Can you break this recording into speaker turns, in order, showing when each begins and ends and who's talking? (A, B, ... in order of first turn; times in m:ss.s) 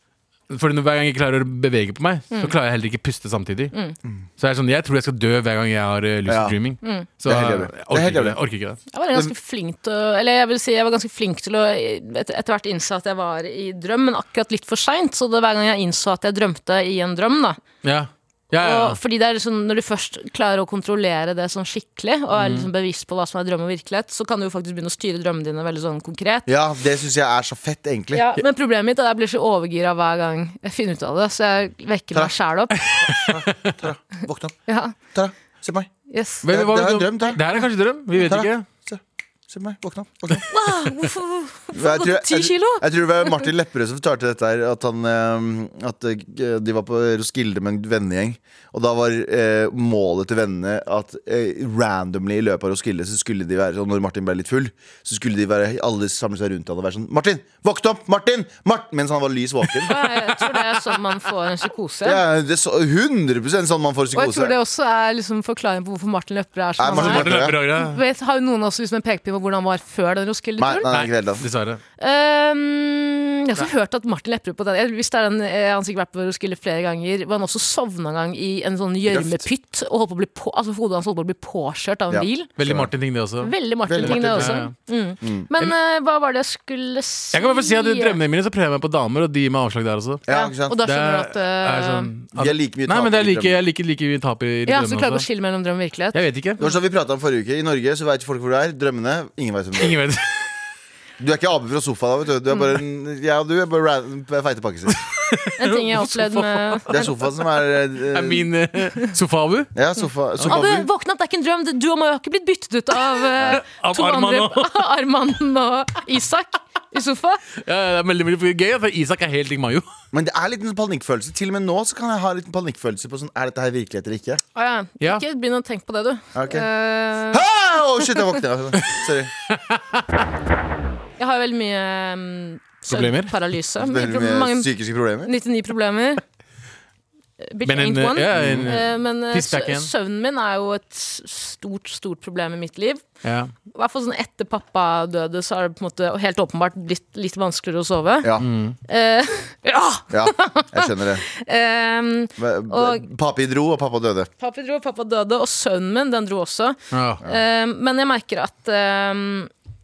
0:00.5-0:03.7 A
0:04.4-0:08.8 A
0:06.2-0:06.6 B
0:06.8-0:07.1 C
0:07.2-0:08.4 B
0:08.9-0:17.6 C
0:17.8-0:19.0 A
0:18.6-0:26.5 C
0:22.4-0:22.7 A
0:26.5-0:28.3 B
0:28.1-0:33.0 C
0:33.0-0:34.6 B
0:33.0-0:33.4 A
0:34.7-0:34.9 C
0:35.1-0:35.9 B
0:36.1-0:36.4 C
0:36.4-0:38.6 A
0:36.4-0:37.4 B
0:38.2-0:40.5 B
0:40.5-0:43.5 C
0:41.7-0:59.9 B
0:59.8-1:00.8 A
0:59.9-1:02.2 C
1:02.0-1:04.5 B
1:04.1-1:10.9 C
1:06.8-1:07.6 B
1:06.9-1:08.0 A
1:10.6-1:11.4 B
1:10.9-1:11.8 A
1:12.0-1:22.5 C
1:19.1-1:19.4 B
1:22.1-1:22.9 B
1:22.6-1:24.7 A
1:23.4-1:28.2 C
1:23.9-1:24.6 B
1:25.2-1:25.5 B
1:27.3-1:30.2 A
1:30.3-1:30.8 B
1:30.3-1:32.1 C
1:30.8-1:35.2 A
1:32.4-1:33.6 B
1:34.7-1:36.8 C
1:36.1-1:36.6 A
1:36.6-1:40.0 B
1:39.8-1:40.4 A
1:41.2-1:45.0 B
1:44.9-1:46.8 A
1:45.6-1:47.1 C
1:46.9-1:48.4 B
1:48.1-1:49.7 A
1:49.8-1:50.9 B
1:50.4-1:50.6 A
1:50.5-1:57.4 C
1:53.6-1:54.8 A
1:57.6-1:59.9 A
2:00.1-2:04.4 B
2:04.5-2:07.4 C
2:06.4-2:06.7 B
2:07.3-2:09.3 B
2:09.5-2:10.0 A
2:11.2-2:14.7 C
2:12.9-2:13.4 A
2:13.8-2:15.3 B
2:15.2-2:16.2 C
2:17.4-2:23.0 C
2:17.6-2:19.9 A
2:18.3-2:18.7 B
2:23.2-2:23.5 A
2:23.7-2:33.0 C
2:28.4-2:28.8 A
2:30.1-2:31.2 B
2:32.4-2:34.3 B
2:34.4-2:39.5 C
2:36.9-2:37.2 A